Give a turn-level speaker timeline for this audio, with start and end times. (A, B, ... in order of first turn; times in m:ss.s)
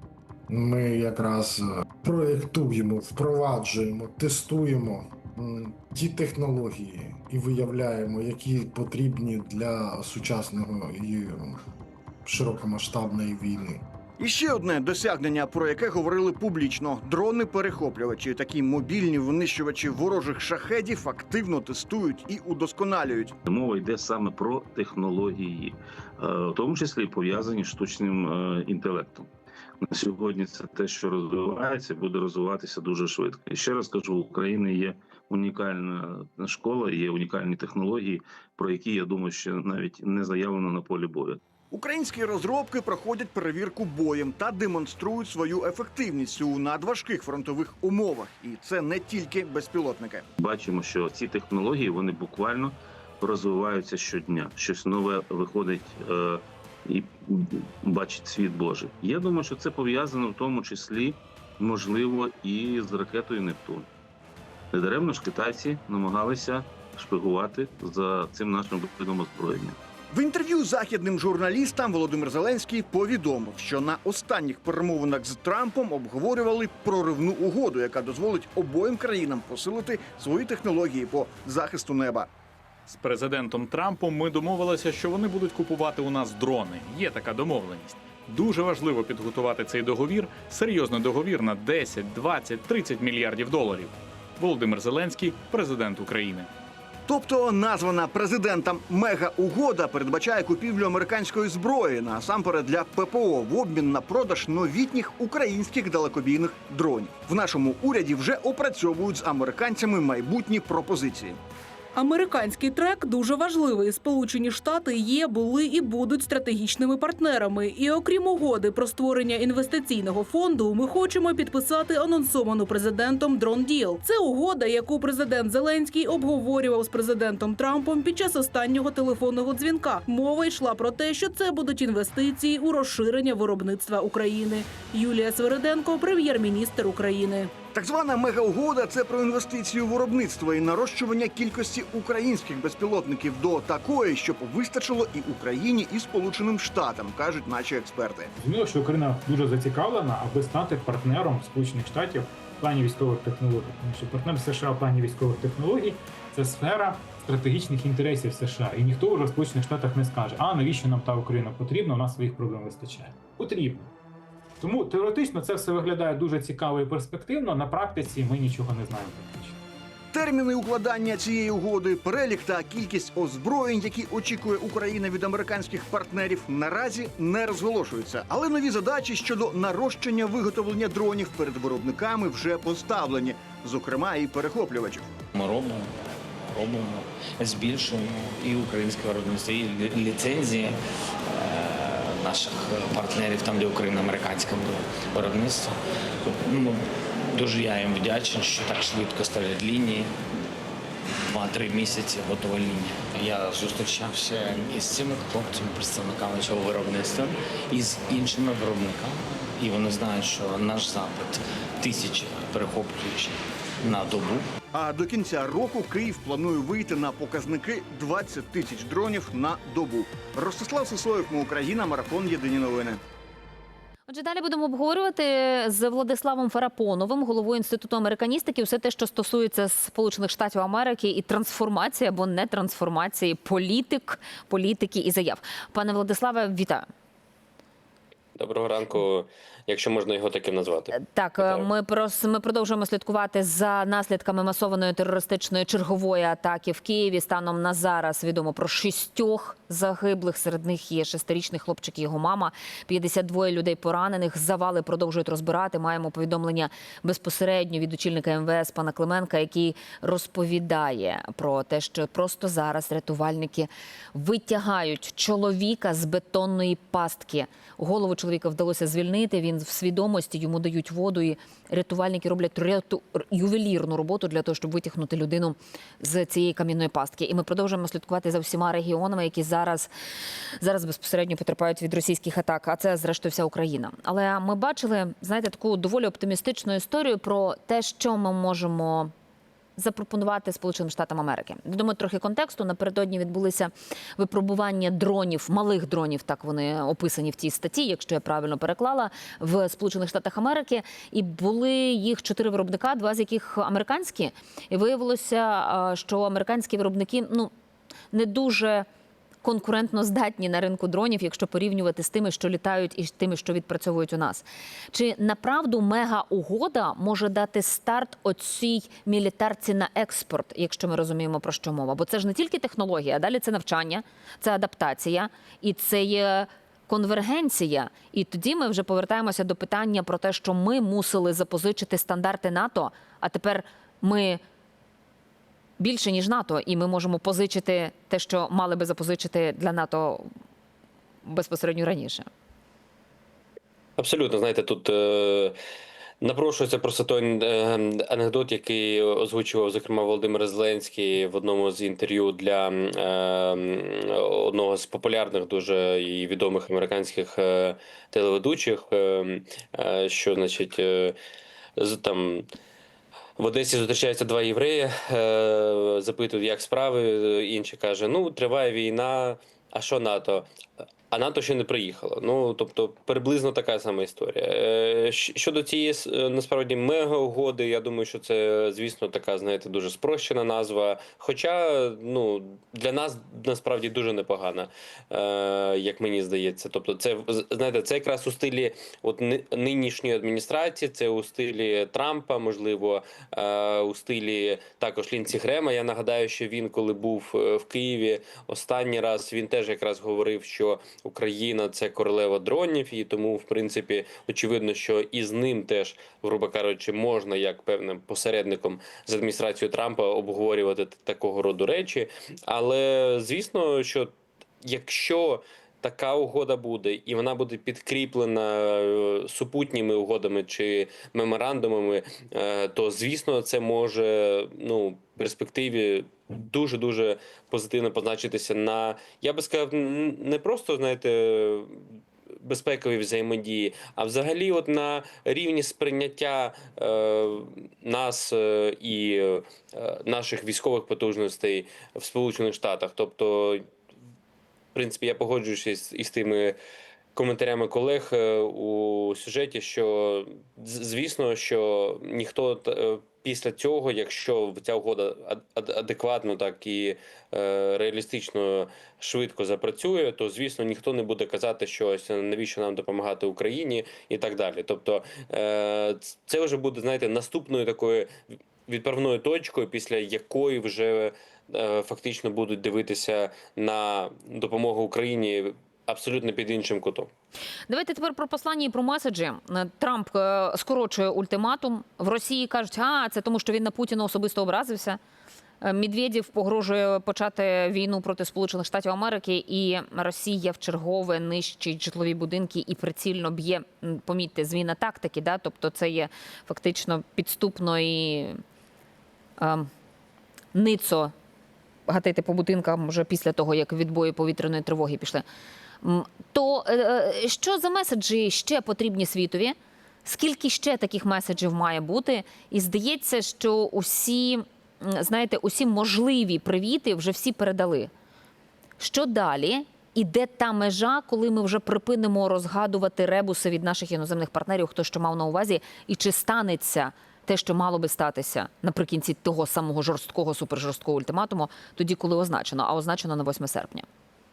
0:00.5-0:11.6 A
0:12.2-0:13.8 A
0:14.2-0:23.3 B
0:23.5-0:29.3 C
0:29.8-0:41.4 C
0:41.7-0:50.2 B
0:50.4-1:03.9 C
1:04.7-1:09.8 C
1:10.1-1:22.3 B
1:22.9-1:36.5 D
1:37.1-1:51.4 B
1:51.9-2:17.5 E
2:17.7-2:28.3 B
2:28.4-2:43.9 F
2:44.6-2:49.6 F
2:50.1-3:05.1 B
3:05.3-3:10.8 G
3:11.3-3:20.1 G
3:21.3-3:34.5 G
3:34.7-3:43.0 B
3:44.1-3:56.9 H
3:58.4-4:01.7 I
4:01.0-4:39.9 H
4:40.6-4:49.1 H
4:49.8-5:07.5 H
5:08.1-5:08.9 H
5:09.4-5:34.4 H
5:35.8-5:40.3 H
5:41.2-5:42.3 H
5:44.0-5:45.6 I
5:46.2-6:01.2 I
6:01.8-6:02.5 I
6:03.4-6:10.5 I
6:11.1-7:11.8 I
7:12.4-7:23.6 I
7:24.7-7:26.6 I
7:27.2-7:48.2 I
7:48.7-7:57.1 I
7:57.7-8:05.0 H
8:05.6-8:18.4 H
8:19.4-8:19.7 H
8:20.5-8:21.1 H
8:21.9-8:25.2 H
8:25.8-8:37.9 H
8:38.8-8:53.9 H